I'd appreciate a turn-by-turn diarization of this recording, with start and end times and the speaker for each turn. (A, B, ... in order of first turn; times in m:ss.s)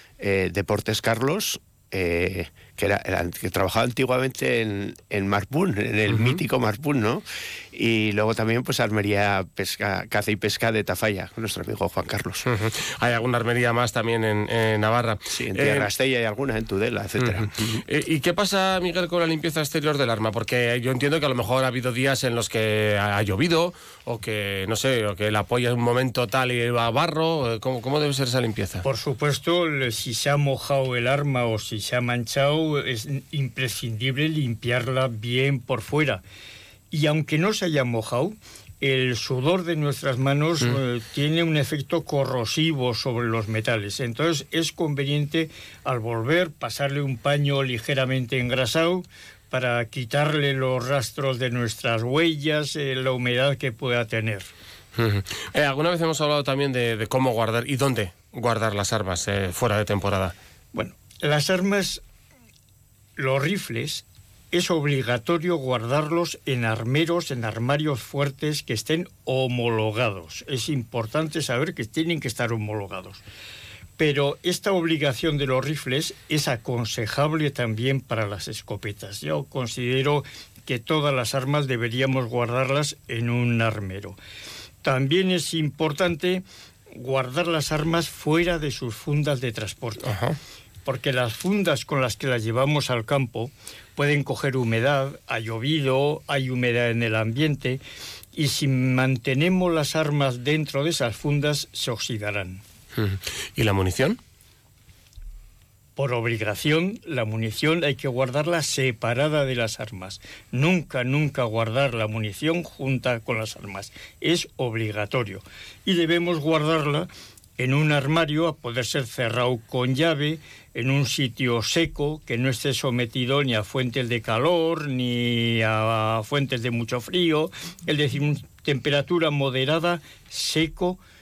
0:00.2-0:12.4 A
0:06.1-0:06.4 B
0:12.5-0:15.9 B
0:15.3-0:17.8 A
0:17.2-0:28.8 B
0:28.8-0:36.2 C
0:36.9-0:54.5 C
0:55.0-1:00.4 B
1:00.7-1:02.0 C
1:03.2-1:13.2 C
1:14.0-1:24.2 C
1:24.8-1:30.1 C
1:30.0-1:30.4 B
1:30.9-1:37.8 C
1:38.4-1:42.6 C
1:43.0-1:44.2 B
1:46.0-2:11.0 C